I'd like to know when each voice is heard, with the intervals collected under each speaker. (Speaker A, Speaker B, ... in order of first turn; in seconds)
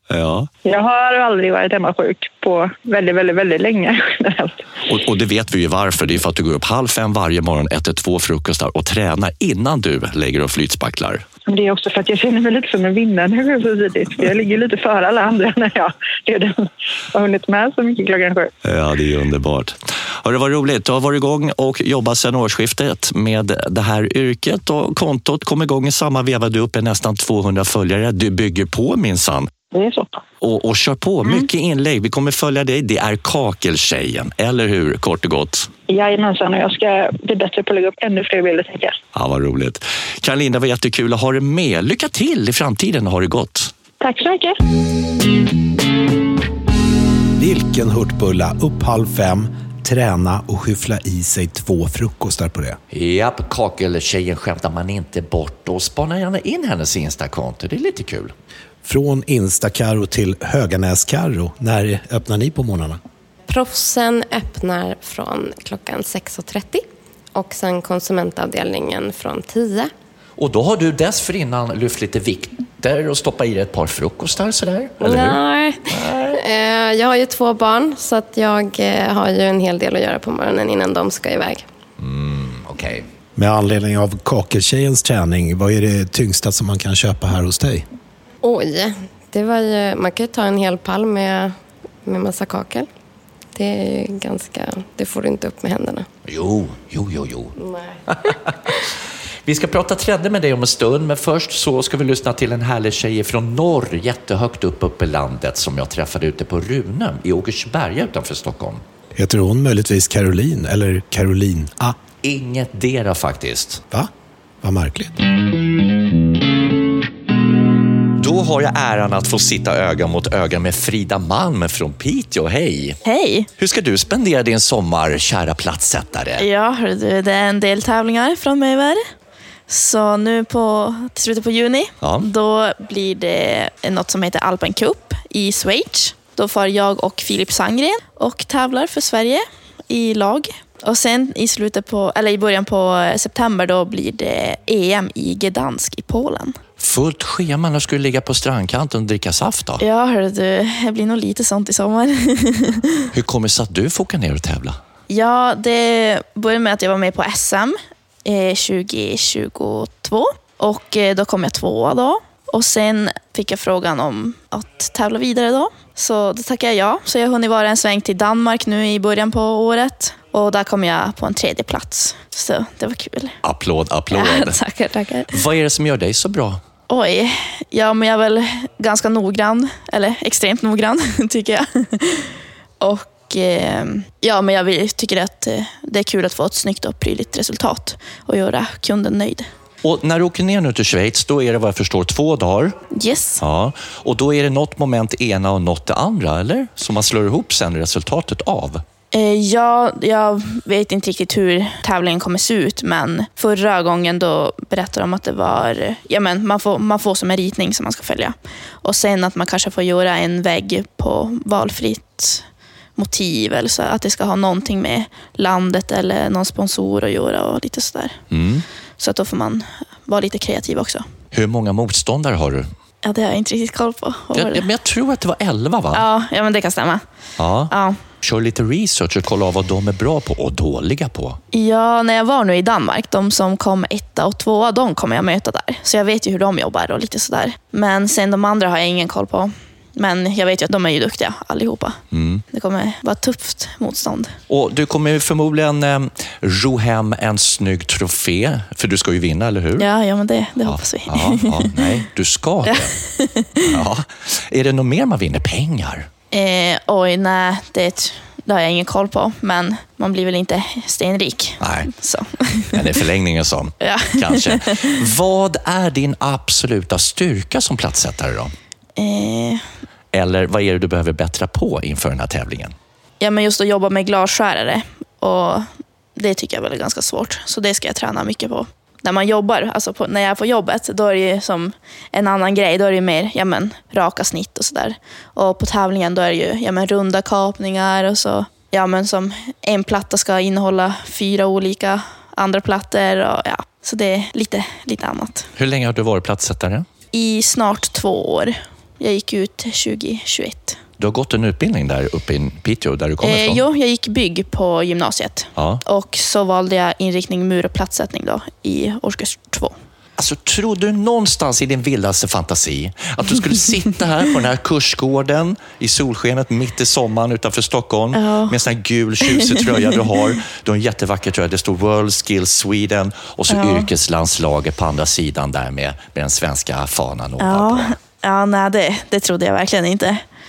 Speaker A: 0.1-0.5, 4.9-11.2, 18.6-29.5, 30.4-35.7, 39.1-43.7, 52.9-58.3, 70.4-76.4, 82.0-83.1, 96.2-97.5, 98.1-98.5, 99.5-108.8, 112.2-113.8, 118.2-123.0, 123.6-126.5, 132.0-132.3, 146.8-149.8, 153.1-154.8, 173.4-174.6, 175.3-176.6, 189.8-192.8, 193.4-198.8, 218.3-218.7, 221.3-222.7, 224.3-226.1, 227.4-231.4, 242.1-242.4, 244.5-249.9, 250.7-253.0, 253.6-256.1, 261.6-261.9, 262.7-268.5, 270.1-272.7, 295.6-296.9, 301.0-303.6, 305.6-305.8, 310.2-327.9
Speaker B: 0.7-4.7, 11.5-18.5, 29.7-30.2, 35.9-39.0, 44.0-44.5
Speaker C: 47.4-52.8, 58.9-63.0, 83.4-87.9, 109.2-112.0, 114.6-115.2
Speaker D: 63.5-69.9, 75.0-81.6, 88.4-92.9, 93.5-96.1, 97.6-98.3
Speaker E: 123.0-123.5, 126.4-129.0, 129.7-146.6, 149.8-153.1, 155.1-173.3, 174.1-175.4, 176.9-189.5, 192.9-193.4, 199.1-212.4, 213.0-218.2, 219.0-221.1, 223.0-224.7, 225.9-227.0, 227.7-228.0, 231.5-242.0, 242.5-244.3, 249.8-251.9, 252.7-253.8, 256.3-262.9, 263.8-265.0, 269.0-269.6, 273.2-295.5, 297.1-300.8, 303.2-309.8, 318.1-318.6, 319.3-320.0, 323.5-323.9, 327.4-330.2